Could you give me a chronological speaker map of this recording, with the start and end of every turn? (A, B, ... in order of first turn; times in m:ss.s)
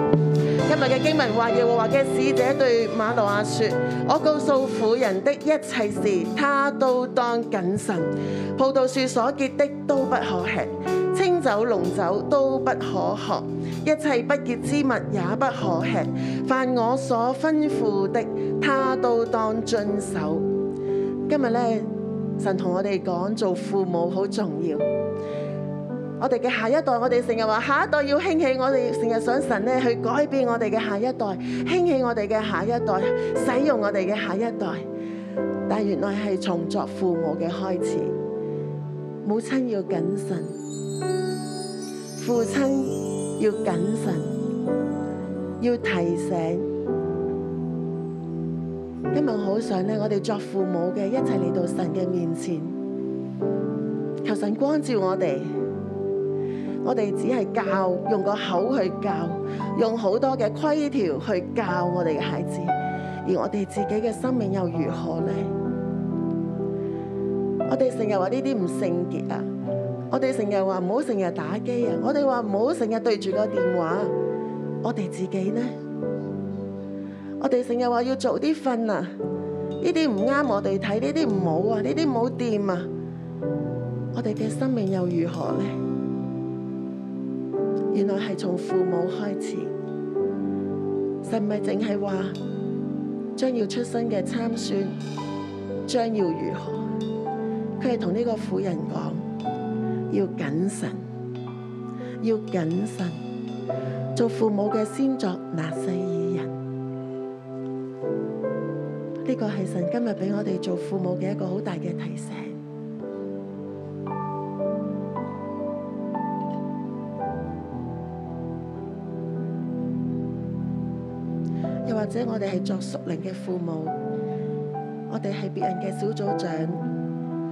0:00.7-0:20.4 A
0:21.3-0:24.8 A
0:26.2-0:34.8 A
0:35.7-0:38.1 A
0:39.2-0:40.5 A
0:42.2-0:44.3 A
0:45.6-0:46.6 A
0:49.1-0:52.7 A
0:54.2-0:55.5 A
0:56.8-1:02.7 A
1:03.2-1:05.5 A
1:07.7-1:09.4 A
1:10.1-1:14.1 A
1:14.8-1:15.7 A
1:17.4-1:19.1 A
1:19.8-1:22.9 A
1:24.1-1:25.7 A
1:27.9-1:29.7 A
1:31.2-1:32.3 A
1:33.4-1:34.9 A
1:35.9-1:36.8 A
1:37.8-1:39.2 A
1:40.1-1:41.0 A
1:42.2-1:43.2 A
1:44.1-1:46.5 A
1:49.2-1:52.6 A
2:01.8-2:03.9 A
2:05.1-2:06.8 A